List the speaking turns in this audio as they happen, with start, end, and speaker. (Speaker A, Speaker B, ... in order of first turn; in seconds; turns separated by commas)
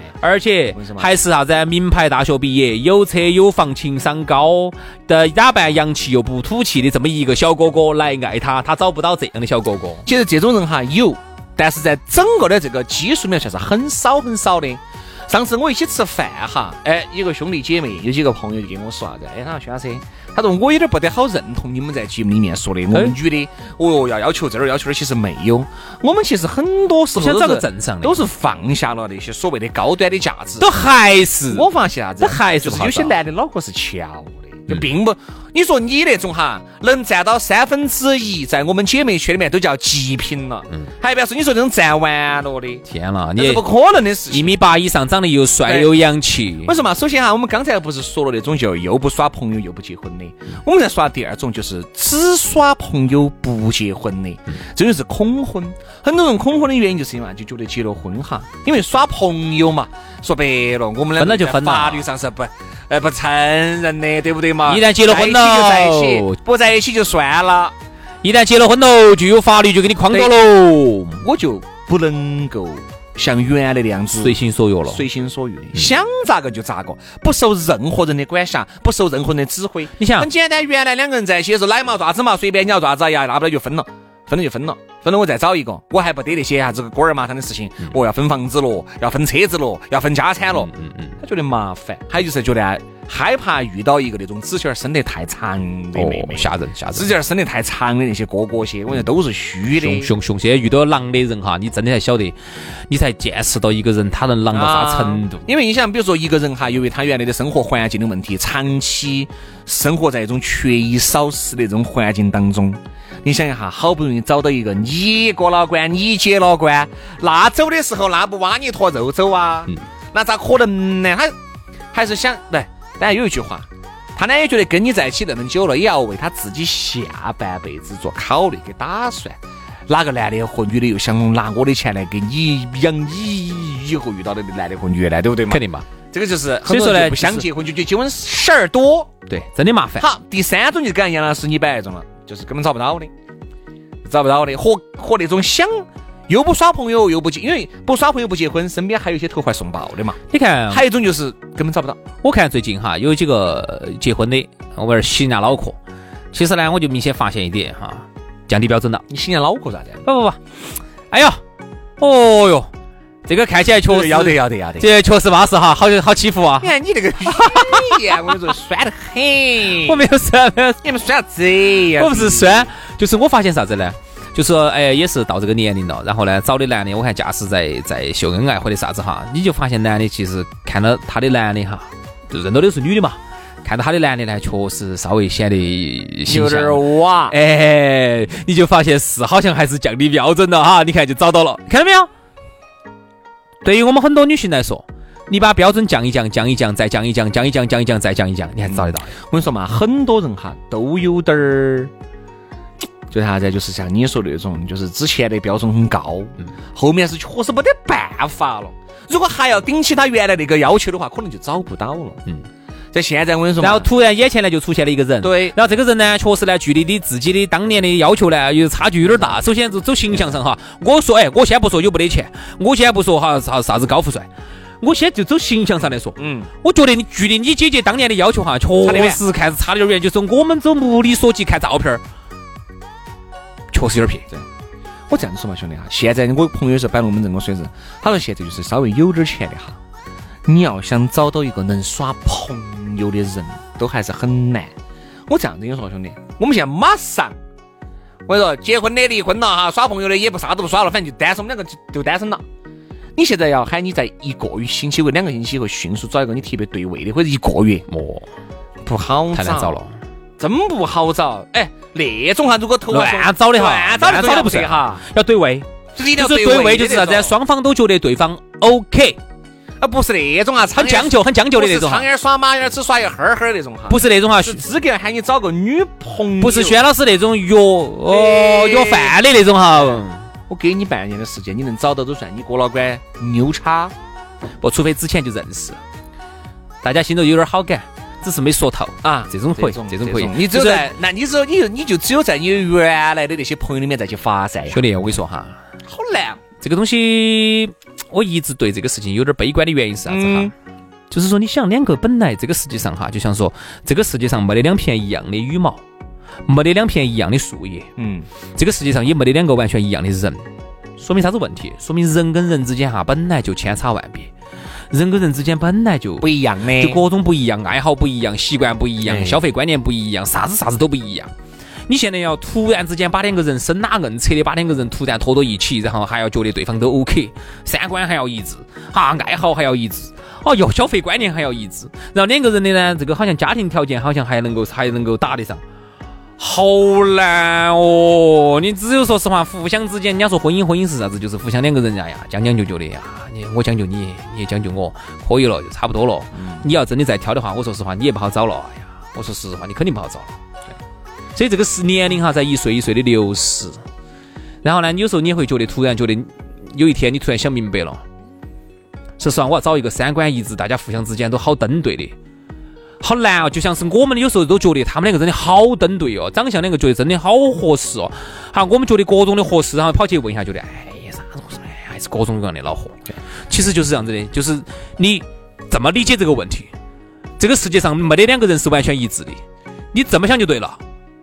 Speaker A: 0.2-10.1, Speaker B: 0.7-1.1, Speaker B: 10.1-30.7, Speaker A: 27.2-28.2, Speaker A: 30.6-31.7, Speaker B: 31.5-42.9, Speaker A: 32.2-33.2, Speaker A: 42.9-43.6, Speaker B: 43.4-44.5, Speaker A: 44.3-46.8, Speaker B: 45.7-45.9, Speaker B: 46.6-67.8, Speaker A: 61.2-62.0, Speaker A: 64.7-66.4, Speaker A: 68.2-71.2, Speaker B: 71.2-100.1, Speaker A: 74.2-75.0, Speaker A: 80.0-80.3, Speaker A: 90.5-91.2, Speaker A: 96.0-97.1, Speaker A: 99.8-102.4, Speaker A: 102.9-105.5, Speaker B: 104.5-121.3, Speaker B: 121.9-139.1, Speaker A: 135.5-135.9, Speaker A: 136.7-137.5, Speaker A: 139.3-140.1, Speaker B: 140.0-143.1, Speaker B: 144.0-152.0, Speaker A: 150.3-150.8, Speaker A: 152.2-155.8, Speaker A: 156.3-159.0, Speaker B: 159.1-160.0, Speaker A: 160.1-160.4, Speaker A: 161.1-161.4, Speaker A: 162.0-162.7, Speaker A: 163.3-166.7, Speaker B: 163.9-164.9, Speaker B: 166.6-170.0, Speaker A: 167.3-168.3, Speaker A: 169.8-170.8, Speaker B: 170.8-172.7, Speaker A: 172.0-192.1, Speaker B: 186.3-187.3, Speaker A: 193.6-199.1, Speaker B: 198.7-201.9, Speaker B: 203.1-212.2, Speaker B: 212.9-213.9, Speaker A: 213.6-224.3, Speaker B: 215.2-215.6, Speaker A: 224.8-232.0, Speaker B: 226.2-226.5, Speaker B: 228.8-229.2, Speaker A: 233.7-234.2, Speaker B: 235.1-239.8, Speaker B: 240.4-244.7, Speaker B: 245.3-247.4, Speaker B: 248.3-252.4, Speaker B: 253.2-257.9, Speaker A: 257.9-258.3, Speaker B: 258.8-259.8, Speaker A: 259.3-259.9, Speaker B: 260.4-265.0, Speaker A: 262.9-269.2, Speaker B: 265.9-267.4, Speaker B: 269.8-276.8, Speaker A: 270.8-272.1, Speaker A: 273.9-274.6, Speaker A: 276.4-280.2, Speaker B: 278.1-279.2, Speaker B: 279.8-283.9, Speaker A: 284.6-285.8, Speaker A: 286.8-290.9, Speaker B: 289.0-294.8, Speaker A: 294.7-295.6, Speaker B: 295.9-296.4, Speaker A: 296.6-300.5, Speaker B: 300.1-300.5, Speaker A: 301.1-305.8, Speaker A: 306.5-307.9, Speaker B: 308.0-308.3, Speaker A: 308.6-310.4, Speaker A: 311.0-314.3, Speaker A: 314.9-321.3, Speaker B: 316.2-317.0, Speaker B: 319.0-319.4, Speaker A: 321.9-335.6, Speaker A: 336.4-350.4, Speaker B: 346.4-346.6, Speaker A: 351.4-353.8, Speaker A: 354.6-358.0, Speaker A: 359.2-362.1, Speaker A: 363.0-373.0, Speaker A: 373.5-376.7, Speaker A: 377.4-379.4, Speaker A: 379.9-380.8